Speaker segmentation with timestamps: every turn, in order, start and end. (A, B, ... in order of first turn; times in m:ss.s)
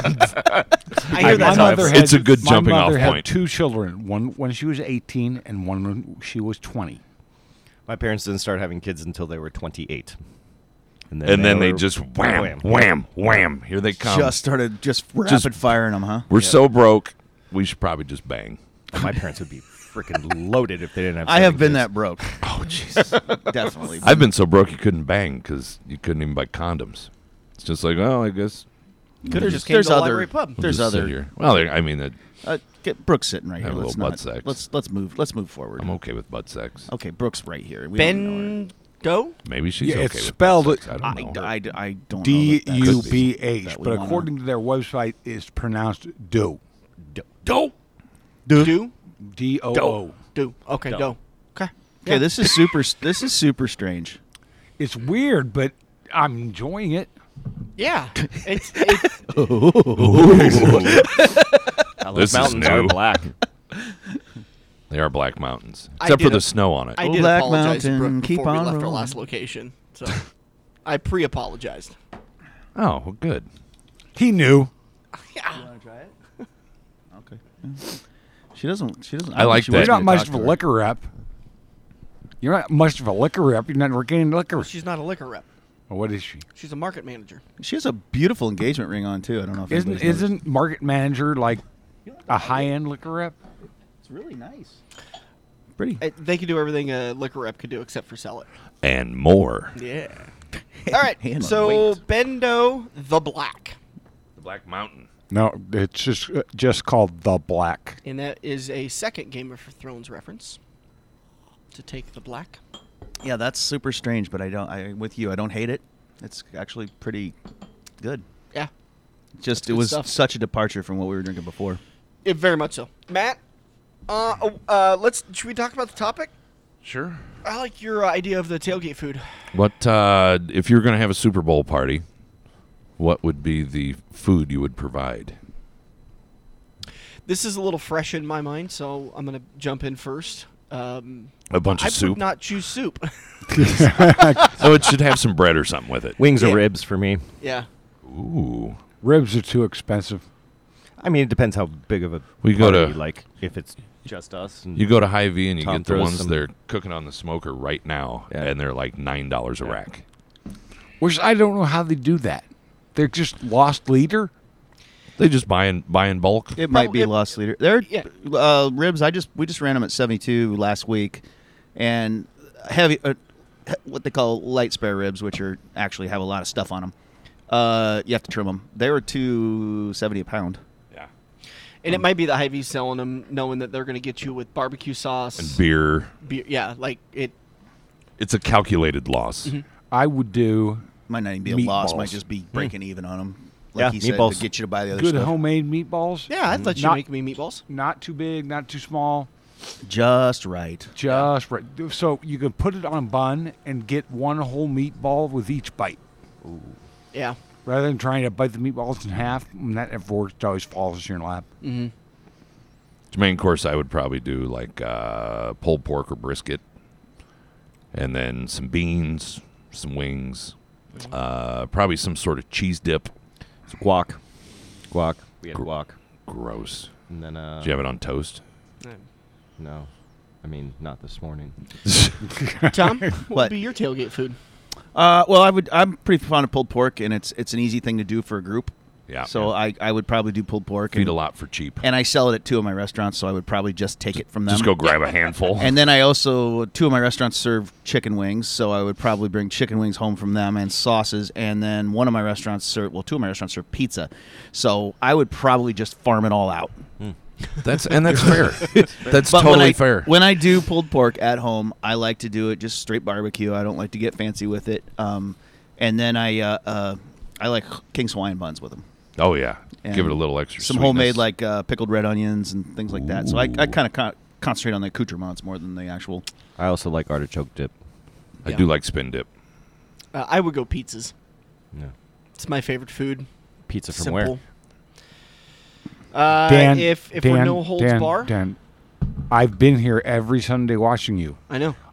0:01.0-0:02.0 A
0:01.1-0:02.0 B
0:01.2-0:07.0 C
0:01.2-0:03.3 D
0:07.9-0:10.2 A
0:11.1-0:12.8 A
0:11.2-0:14.4 D
0:14.0-0:16.3 E
0:15.2-0:15.6 D
0:16.3-0:18.6 D
0:18.9-0:22.4 A
0:21.2-0:22.3 E
0:22.4-0:23.2 D
0:23.4-0:24.3 E
0:24.0-0:28.6 D
0:29.2-0:31.2 E
0:29.3-0:30.6 B
0:30.6-0:32.2 D
0:32.4-0:35.9 E
0:33.6-0:34.6 D
0:35.8-0:36.9 D
0:36.9-0:38.6 E
0:38.0-0:39.4 B
0:39.4-0:41.5 D
0:39.8-0:40.8 C
0:41.0-0:44.3 E
0:42.2-0:46.6 C
0:42.8-0:43.3 D
0:47.1-0:47.6 A
0:48.4-0:48.8 E
0:48.5-0:48.9 B
0:49.2-0:50.2 C
0:50.3-0:52.3 B
0:52.0-0:54.2 E
0:54.8-0:57.1 C
0:57.8-0:59.1 B
0:58.7-1:01.4 E
1:00.0-1:01.1 D
1:02.0-1:03.3 A
1:02.1-1:03.2 D
1:04.9-1:07.0 D
1:06.0-1:10.3 B
1:07.0-1:09.2 E
1:10.8-1:11.9 B
1:12.8-1:13.5 D
1:14.1-1:14.7 C
1:15.2-1:15.6 B
1:15.5-1:16.1 E
1:17.1-1:17.9 E
1:18.5-1:20.6 E
1:19.3-1:20.2 D
1:19.7-1:21.1 C
1:22.4-1:24.7 C
1:24.6-1:25.5 B
1:25.9-1:26.4 C
1:26.6-1:27.4 B
1:27.6-1:30.3 E
1:29.7-1:31.6 C
1:32.1-1:32.7 E
1:32.3-1:33.4 C
1:34.0-1:34.8 E
1:35.8-1:36.0 E
1:36.0-1:38.5 B
1:38.8-1:39.8 D
1:39.8-1:40.3 B
1:40.8-1:42.0 E
1:40.9-1:43.8 B
1:44.4-1:45.1 D
1:45.3-1:48.0 C
1:48.0-1:50.6 B
1:51.7-1:52.6 B
1:53.2-1:57.4 E
1:58.0-1:58.2 E
1:59.4-2:01.8 E
1:59.6-2:00.2 B
2:02.2-2:03.4 B
2:04.1-2:06.3 B
2:06.8-2:07.2 D
2:07.4-2:09.3 B
2:09.5-2:12.0 D
2:13.0-2:15.4 D
2:17.3-2:24.2 B
2:21.5-2:22.3 D
2:23.5-2:24.5 C
2:24.3-2:26.2 D
2:26.2-2:27.2 A
2:27.4-2:27.7 B
2:28.0-2:28.8 D
2:29.0-2:30.2 C
2:31.0-2:35.0 A
2:32.4-2:33.0 D
2:34.8-2:40.0 D
2:35.6-2:36.4 A
2:41.0-2:44.3 C
2:45.2-2:46.6 D
2:46.6-2:56.9 E
2:46.7-2:47.1 B
2:57.5-3:00.6 E
3:01.8-3:05.6 B
3:05.4-3:06.1 D
3:06.2-3:07.4 B
3:08.2-3:09.6 D
3:09.9-3:10.9 C
3:11.1-3:15.4 E
3:11.4-3:12.2 C
3:13.8-3:14.5 A
3:14.9-3:17.0 C
3:16.3-3:17.6 B
3:17.7-3:19.3 C
3:19.8-3:20.9 E
3:20.9-3:26.0 C
3:26.4-3:26.8 A
3:27.6-3:31.4 C
3:31.6-3:31.9 B
3:33.1-3:36.6 D
3:37.9-3:40.5 D
3:41.1-3:43.1 D
3:43.7-3:44.2 A
3:44.9-3:46.0 A
3:46.3-3:46.9 D
3:47.1-3:47.8 A
3:47.6-3:48.4 D
3:49.6-3:49.9 A
3:50.4-3:51.6 A
3:52.3-3:53.1 C
3:52.7-3:54.4 B
3:54.9-3:58.7 E
3:59.1-3:59.5 D
3:59.3-4:01.1 E
4:00.9-4:01.8 D
4:01.8-4:04.8 E
4:04.4-4:05.8 D
4:05.6-4:16.8 E
4:17.6-4:20.1 D
4:19.0-4:19.4 A
4:19.1-4:28.8 E
4:29.2-4:31.2 D
4:29.8-4:36.2 E
4:32.9-4:33.8 D
4:36.6-4:37.7 A
4:38.4-4:39.3 D
4:40.1-4:41.1 B
4:42.4-4:43.3 B
4:43.7-4:44.4 A
4:43.9-4:44.4 B
4:46.1-4:48.3 B
4:46.5-4:48.6 C
4:49.3-4:51.4 C
4:51.5-4:51.8 B